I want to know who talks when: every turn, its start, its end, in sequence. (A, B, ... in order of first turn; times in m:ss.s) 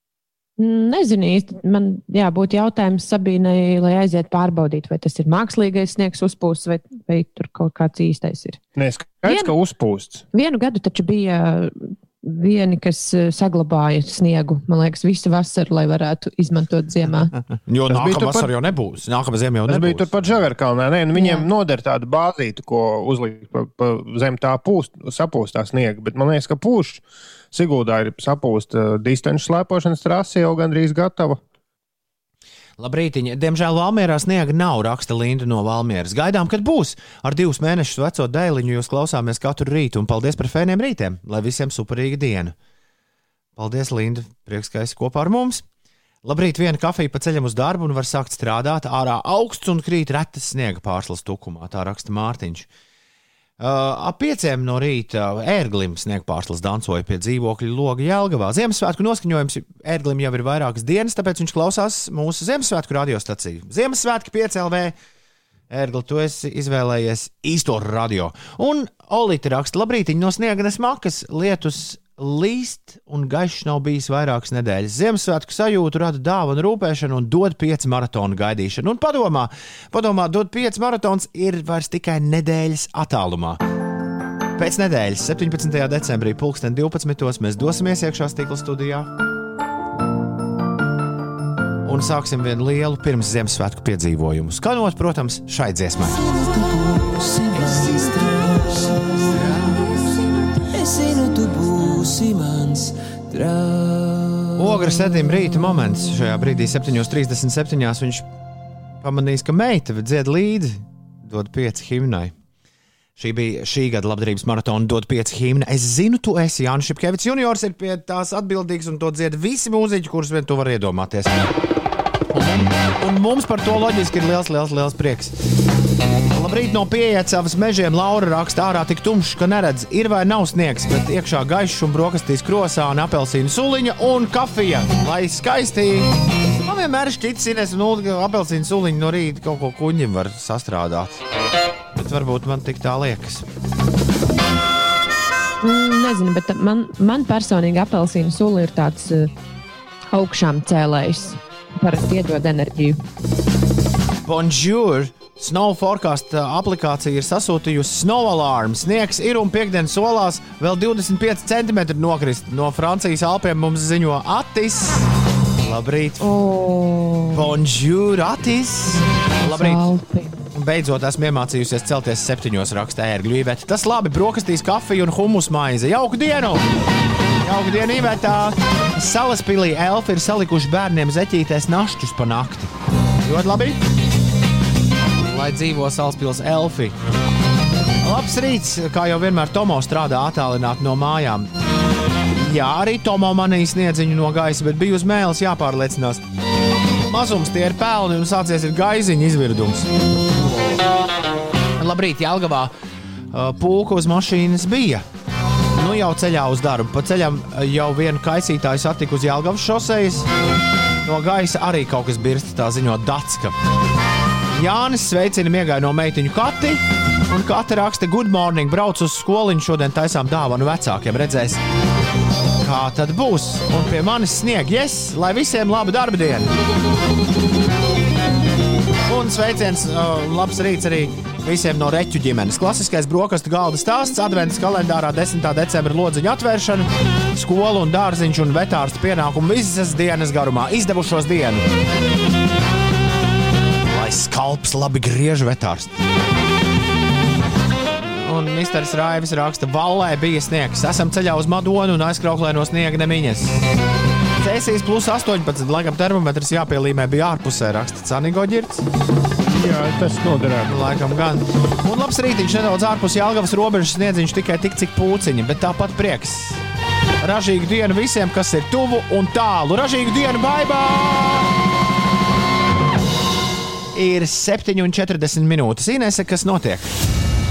0:00.6-0:08.6 A
0:08.8-0:10.2 B
0:09.2-0:09.5 A
0:10.3-0:17.3 A
0:17.7-0:20.3 C
0:17.9-0:18.5 B
0:19.7-0:31.4 B
0:21.1-0:21.5 A
0:32.8-0:42.5 C
0:43.6-0:45.6 C
0:46.2-0:52.7 C
0:53.6-1:04.9 C
1:05.7-1:23.6 C
1:24.6-1:29.1 C
1:31.8-1:36.2 C
1:36.2-1:44.6 D
1:44.6-1:48.3 C
1:49.0-1:52.3 C
1:53.2-2:01.5 C
2:02.3-2:05.3 C
2:06.3-2:16.1 C
2:16.6-2:21.2 C
2:21.9-2:23.4 C
2:25.6-2:29.3 A
2:30.1-2:33.0 A
2:34.2-2:46.3 C
2:46.2-2:47.5 A
2:47.3-2:49.8 C
2:49.5-2:50.4 A
2:50.5-2:56.7 C
2:57.4-3:03.8 C
3:05.2-3:07.0 C
3:08.0-3:11.5 C
3:12.3-3:16.2 C
3:17.0-3:19.9 C
3:21.8-3:22.7 C
3:23.3-3:25.0 C
3:25.7-3:30.3 C
3:31.0-3:33.6 C
3:34.5-3:41.6 C
3:42.6-3:46.5 C
3:49.0-4:01.6 C
4:03.9-4:05.9 C
4:07.9-4:13.6 C
4:14.4-4:18.9 C
4:19.4-4:20.7 B
4:20.6-4:26.6 C
4:27.2-4:31.6 C
4:33.9-4:36.9 C